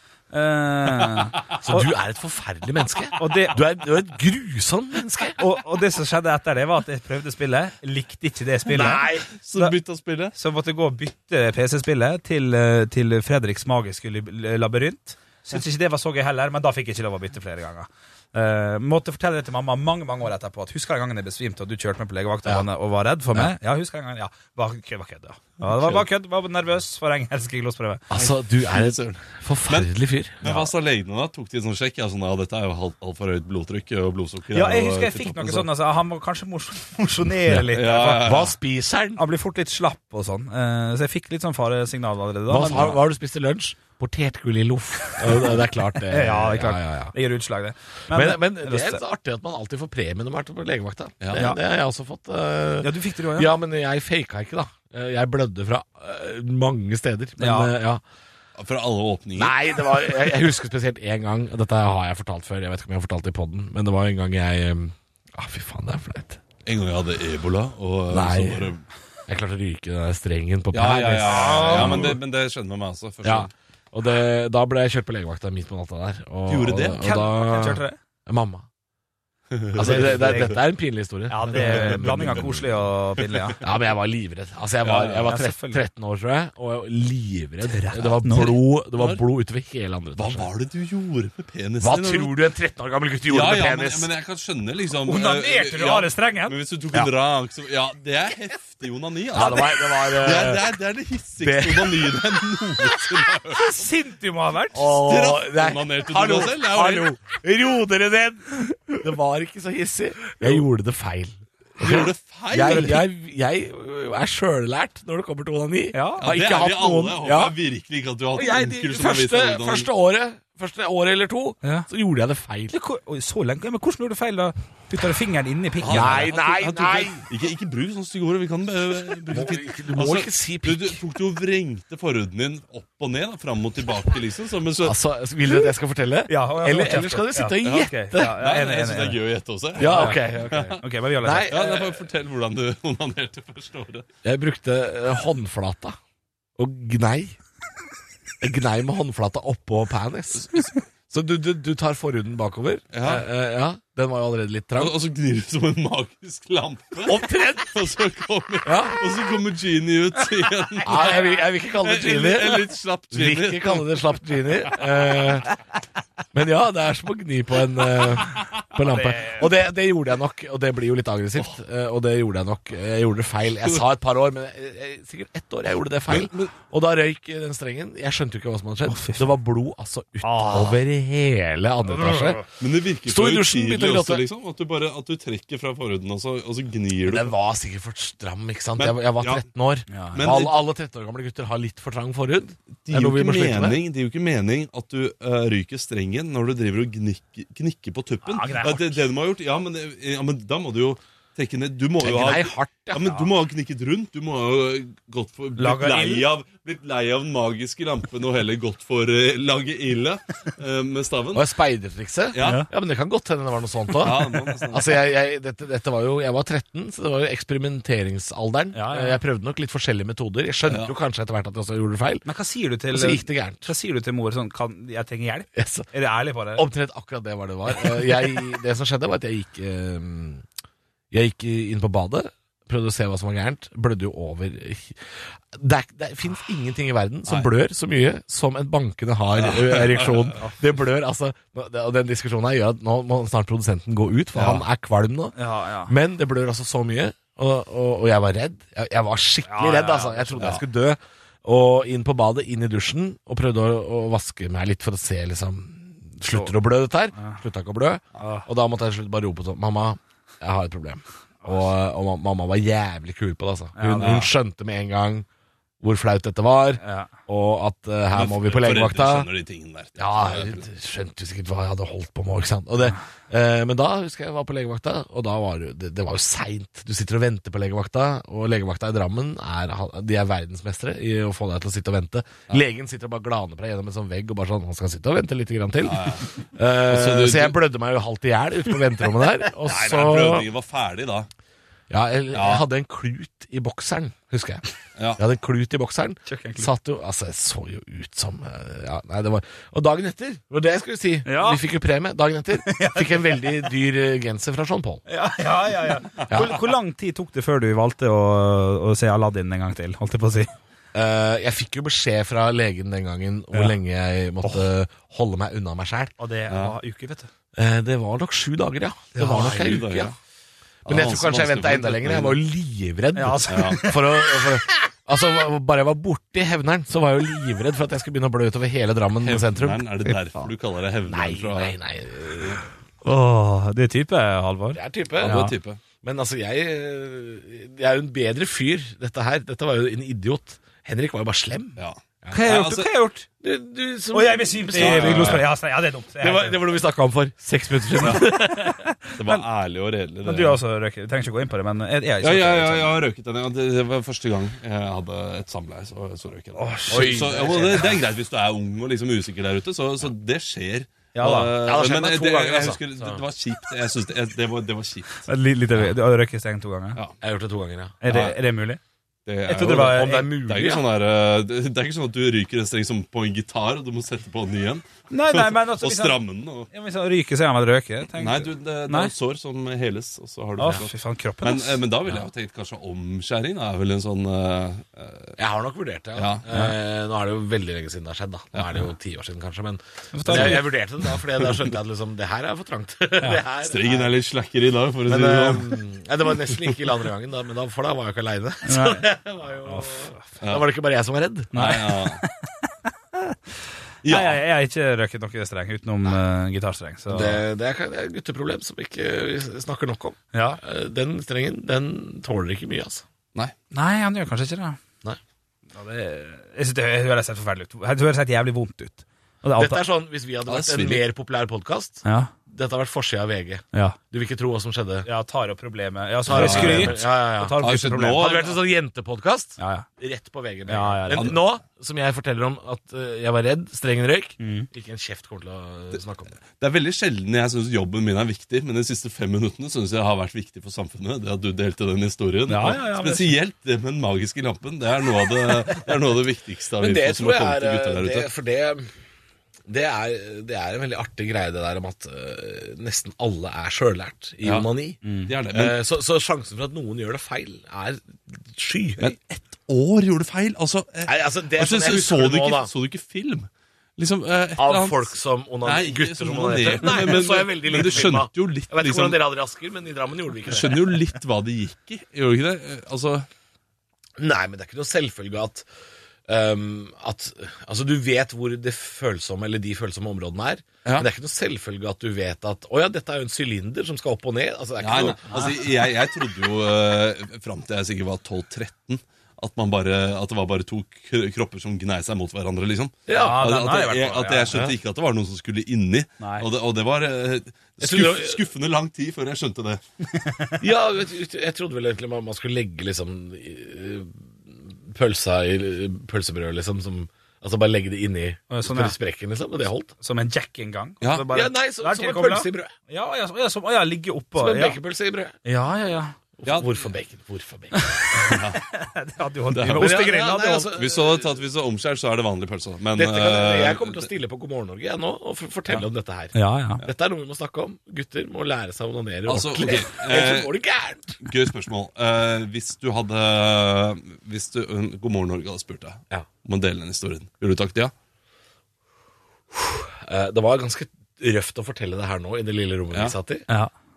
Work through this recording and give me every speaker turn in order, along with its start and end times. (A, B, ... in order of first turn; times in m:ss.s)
0:00.3-0:01.9 A
0:01.6-0:05.4 B
0:03.2-0:03.6 A
0:05.4-0:09.8 A
0:08.7-0:09.3 B
0:09.3-0:10.4 C
0:10.3-0:28.1 A
0:28.1-0:30.5 B
0:28.1-0:35.7 C
0:30.4-0:30.7 A
0:34.5-0:38.3 A
0:37.7-0:38.6 C
0:38.1-0:39.2 B
0:39.2-0:43.0 A
0:42.5-0:47.1 B
0:46.1-0:49.0 A
0:48.1-0:58.0 B
0:51.3-0:51.6 A
0:52.8-0:53.6 A
0:57.4-0:57.7 A
0:58.6-1:00.3 C
0:59.4-1:06.4 B
1:06.7-1:08.8 C
1:08.1-1:08.7 B
1:09.3-1:12.2 B
1:10.7-1:13.5 C
1:11.3-1:12.2 A
1:13.2-1:18.7 B
1:16.5-1:17.0 C
1:17.0-1:18.0 A
1:19.5-1:20.5 C
1:19.7-1:22.7 B
1:19.8-1:20.6 A
1:21.3-1:23.6 A
1:21.5-1:22.5 C
1:23.6-1:30.5 B
1:24.8-1:25.3 C
1:25.2-1:25.8 A
1:27.6-1:28.6 A
1:28.3-1:29.2 C
1:30.2-1:32.4 C
1:31.8-1:34.1 B
1:33.3-1:43.7 C
1:35.1-1:36.6 A
1:39.3-1:40.6 B
1:39.4-1:40.5 A
1:41.4-1:42.3 B
1:43.5-1:44.9 A
1:44.7-1:57.5 B
1:44.8-1:47.1 C
1:51.8-1:53.0 C
1:52.6-1:53.0 A
1:55.9-1:56.2 A
1:56.2-1:59.9 C
1:58.4-2:02.7 B
2:01.6-2:01.9 A
2:02.7-2:06.4 A
2:05.8-2:15.0 C
2:05.9-2:07.2 B
2:09.3-2:11.0 B
2:14.8-2:18.4 B
2:16.3-2:19.2 A
2:17.7-2:20.8 C
2:19.8-2:21.9 B
2:19.8-2:20.2 A
2:20.8-2:21.6 A
2:21.5-2:24.1 C
2:24.2-2:26.0 B
2:26.6-2:27.4 B
2:28.4-2:34.9 B
2:32.9-2:33.2 C
2:34.8-2:44.0 C
2:37.0-2:37.8 B
2:38.6-2:39.0 B
2:40.8-2:45.5 B
2:40.9-2:41.4 A
2:46.3-3:02.4 B
2:48.8-2:49.5 A
2:56.1-2:56.5 C
2:58.8-2:59.3 A
3:00.2-3:00.8 A
3:01.9-3:02.4 A
3:02.6-3:07.3 C
3:03.1-3:04.2 B
3:07.1-3:13.8 B
3:08.8-3:09.4 C
3:09.9-3:10.2 A
3:10.1-3:10.6 C
3:12.9-3:31.5 C
3:18.2-3:19.1 A
3:22.0-3:23.3 B
3:25.6-3:26.3 A
3:31.3-3:42.2 B
3:32.3-3:32.7 C
3:32.4-3:32.7 A
3:34.0-3:35.0 C
3:38.7-3:39.2 A
3:40.7-3:40.9 C
3:42.2-3:46.7 A
3:42.9-3:43.7 B
3:45.6-3:45.9 B
3:46.6-3:50.4 B
3:51.1-3:55.0 B
3:55.5-4:05.4 B
3:59.3-4:00.3 C
4:04.4-4:04.6 C
4:05.4-4:05.9 A
4:05.9-4:25.3 B
4:09.5-4:10.6 A
4:16.2-4:16.5 A
4:17.1-4:17.4 A
4:18.2-4:18.5 A
4:23.8-4:24.3 A
4:24.0-4:24.3 C
4:25.8-4:29.3 B
4:26.8-4:27.1 A
4:28.1-4:30.6 C
4:30.0-4:50.5 B
4:45.8-4:47.6 C
4:49.6-4:51.3 C
4:51.9-4:54.6 B
4:52.3-4:52.6 C
4:55.2-5:05.0 B
4:56.3-4:56.7 A
5:01.2-5:01.6 A
5:02.6-5:03.5 A
5:05.1-5:10.5 A
5:06.3-5:06.6 B
5:10.9-5:16.1 B
5:16.2-5:17.3 A
5:16.5-5:16.8 C
5:17.6-5:20.1 B
5:19.2-5:19.7 A
5:19.2-5:20.2 C
5:20.8-5:22.4 C
5:20.9-5:29.8 B
5:23.1-5:24.3 A
5:23.5-5:23.9 C
5:29.2-5:31.8 C
5:30.1-5:30.5 A
5:31.1-5:32.6 B
5:33.0-5:35.6 A
5:34.8-5:35.4 B
5:35.2-5:35.8 C
5:36.0-5:42.4 B
5:41.8-5:42.9 C
5:42.3-5:43.3 A
5:43.4-5:45.5 B
5:44.1-5:46.6 A
5:44.8-5:45.4 C
5:46.2-5:48.8 B
5:48.0-5:48.2 C
5:48.2-5:49.4 A
5:49.2-5:50.6 C
5:50.2-5:53.0 A
5:52.2-6:05.3 C
5:56.6-5:57.8 A
5:56.9-5:58.0 B
6:01.1-6:01.6 A
6:01.2-6:02.8 B
6:05.3-6:07.0 A
6:07.2-6:08.0 B
6:08.0-6:08.8 A
6:08.1-6:08.4 C
6:09.3-6:16.7 C
6:09.5-6:10.3 A
6:09.7-6:10.8 B
6:15.1-6:19.1 A
6:18.2-6:25.4 C
6:20.6-6:21.8 A
6:25.4-6:34.1 B
6:26.2-6:26.4 C
6:28.5-6:28.8 C
6:30.1-6:30.7 A
6:30.3-6:31.7 C
6:33.6-6:35.8 C
6:35.1-6:41.5 B
6:36.5-6:36.9 C
6:38.7-6:39.1 A
6:39.6-6:40.2 A
6:41.5-6:42.2 C
6:41.5-6:43.4 A
6:44.0-6:44.4 C
6:44.1-6:47.4 A
6:47.1-6:53.0 B
6:50.3-6:50.6 A
6:53.7-6:54.8 A
6:55.8-6:59.8 A
6:59.6-7:05.1 B
7:00.5-7:01.0 C
7:02.0-7:02.3 A
7:05.0-7:08.3 A
7:06.3-7:16.4 B
7:06.3-7:07.0 C
7:07.6-7:08.6 C
7:09.6-7:09.9 A
7:10.7-7:11.4 A
7:11.1-7:11.4 C
7:14.4-7:14.7 A
7:16.6-7:28.3 C
7:22.5-7:23.3 A
7:26.8-7:28.9 B
7:29.7-7:39.1 B
7:35.0-7:35.3 A
7:35.3-7:35.8 C
7:39.0-7:49.2 C
7:41.1-7:42.7 B
7:44.6-7:50.8 B
7:50.5-7:53.3 C
7:54.2-7:55.7 B
7:56.3-8:05.3 B
8:04.8-8:19.8 C
8:05.3-8:05.6 A
8:13.1-8:13.4 B
8:13.1-8:14.7 A
8:16.2-8:16.5 A
8:17.8-8:18.4 B
8:20.1-8:20.6 A
8:20.6-8:29.9 B
8:28.5-8:29.0 A
8:30.0-8:34.8 A
8:31.0-8:31.3 C
8:31.2-8:32.7 B
8:34.4-8:35.4 B
8:35.4-8:36.2 A
8:36.4-8:38.0 B
8:36.4-8:36.8 C
8:37.7-8:40.7 A
8:38.2-8:38.6 C
8:39.6-8:40.0 C
8:39.6-8:41.4 B
8:40.8-8:44.1 C
8:43.0-8:51.3 B
8:46.3-8:46.8 A
8:49.3-8:50.5 C
8:51.2-8:57.9 C
8:59.5-9:03.5 B